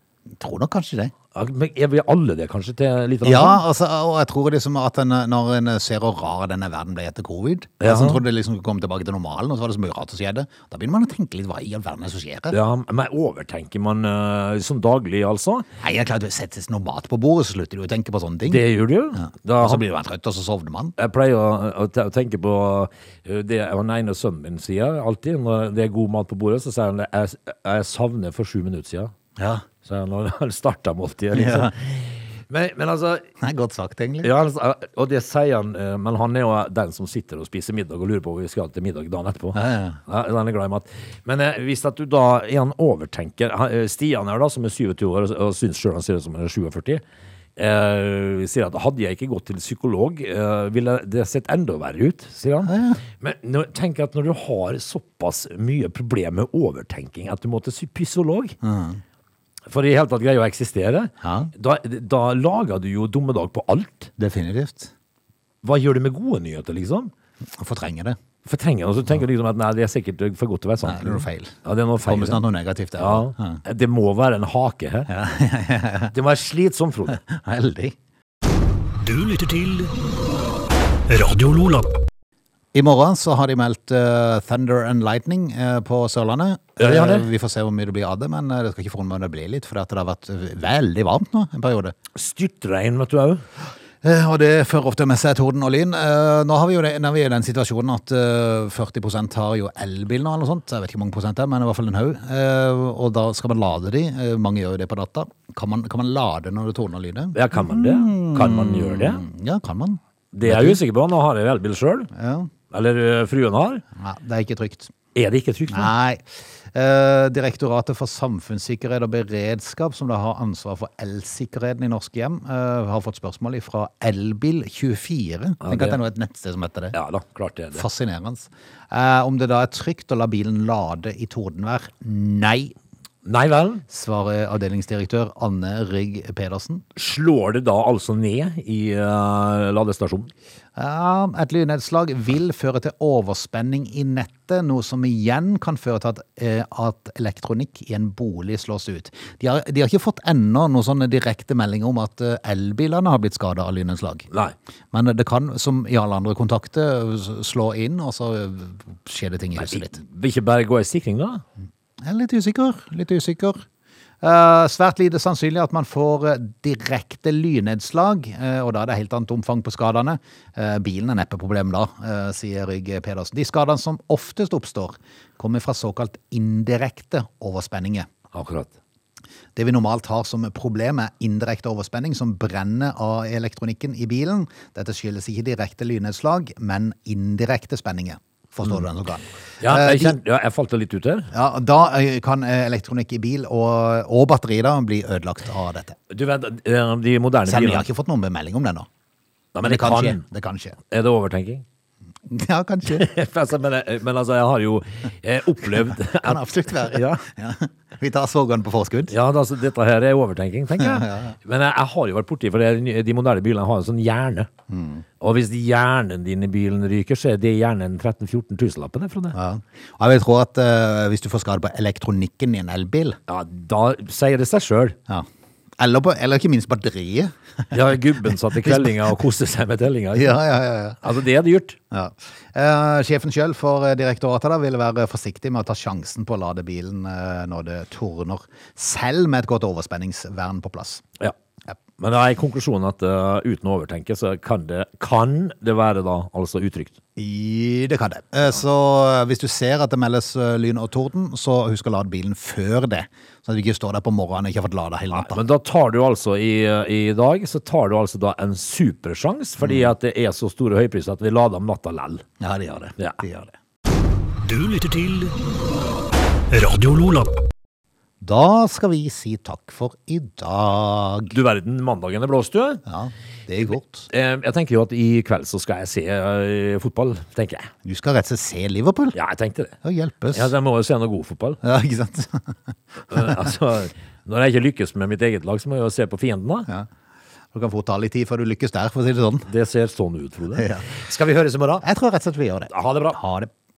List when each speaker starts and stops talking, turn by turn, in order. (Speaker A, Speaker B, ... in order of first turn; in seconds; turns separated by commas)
Speaker A: 0.4-1.1, Speaker B: 1.3-3.6, Speaker A: 3.2-12.6, Speaker B: 7.8-8.2, Speaker B: 12.5-15.7, Speaker A: 15.8-20.9, Speaker B: 18.5-19.8, Speaker B: 21.0-29.1, Speaker A: 29.4-29.6, Speaker B: 29.8-33.3, Speaker A: 31.3-31.7, Speaker A: 33.4-34.3, Speaker B: 34.2-47.0, Speaker A: 39.5-40.0, Speaker B: 47.6-58.5, Speaker A: 52.6-53.0, Speaker A: 58.6-59.0, Speaker B: 59.7-64.1, Speaker A: 61.2-61.5, Speaker A: 64.2-64.9, Speaker B: 65.6-67.1, Speaker A: 67.6-68.2, Speaker B: 68.4-72.4, Speaker A: 70.8-73.6, Speaker B: 73.0-75.1, Speaker A: 75.1-76.1, Speaker B: 76.1-77.2, Speaker A: 77.1-77.9, Speaker C: 79.0-79.9, Speaker C: 81.1-81.9, Speaker A: 82.7-91.9, Speaker B: 86.8-87.3, Speaker B: 92.1-93.4, Speaker A: 94.0-110.8, Speaker B: 107.3-109.2, Speaker B: 110.3-112.1, Speaker A: 112.1-112.5, Speaker B: 112.7-113.8, Speaker A: 113.9-114.9, Speaker B: 115.1-115.9, Speaker A: 115.7-127.0, Speaker B: 125.6-126.0, Speaker B: 126.9-127.8, Speaker A: 127.7-132.7, Speaker B: 133.2-133.8, Speaker A: 133.9-136.8, Speaker B: 136.9-140.3, Speaker A: 140.8-154.3, Speaker A: 154.9-160.0, Speaker B: 159.6-161.4, Speaker A: 162.0-163.6, Speaker A: 164.2-178.1, Speaker B: 178.3-178.7, Speaker A: 179.5-190.2, Speaker B: 189.6-191.3, Speaker A: 191.3-196.0, Speaker B: 196.1-197.9, Speaker A: 197.5-198.9, Speaker B: 199.5-200.2, Speaker A: 199.6-200.8, Speaker B: 200.8-201.6, Speaker A: 202.3-203.1, Speaker B: 202.9-207.2, Speaker A: 206.1-209.1, Speaker B: 209.1-214.5, Speaker A: 210.8-211.3, Speaker A: 214.7-215.0, Speaker B: 215.2-219.3, Speaker A: 219.3-223.2, Speaker B: 223.3-225.0, Speaker A: 225.8-227.8, Speaker B: 227.7-230.4, Speaker A: 228.5-229.0, Speaker A: 230.1-231.0, Speaker B: 231.0-231.8, Speaker A: 231.9-241.0, Speaker B: 242.0-246.9, Speaker A: 247.2-255.4, Speaker B: 255.1-262.2, Speaker A: 259.6-259.9, Speaker A: 262.4-263.5, Speaker C: 264.4-265.3, Speaker C: 266.5-267.4, Speaker A: 268.2-271.4, Speaker B: 271.3-272.8, Speaker A: 272.9-274.1, Speaker B: 274.1-277.7, Speaker A: 277.8-279.1, Speaker B: 279.1-279.7, Speaker A: 279.8-280.5, Speaker B: 280.3-281.6, Speaker A: 281.6-283.4, Speaker B: 283.1-286.7, Speaker A: 287.5-289.5, Speaker B: 289.5-291.8, Speaker A: 290.5-290.9, Speaker A: 291.8-293.5, Speaker B: 292.7-293.2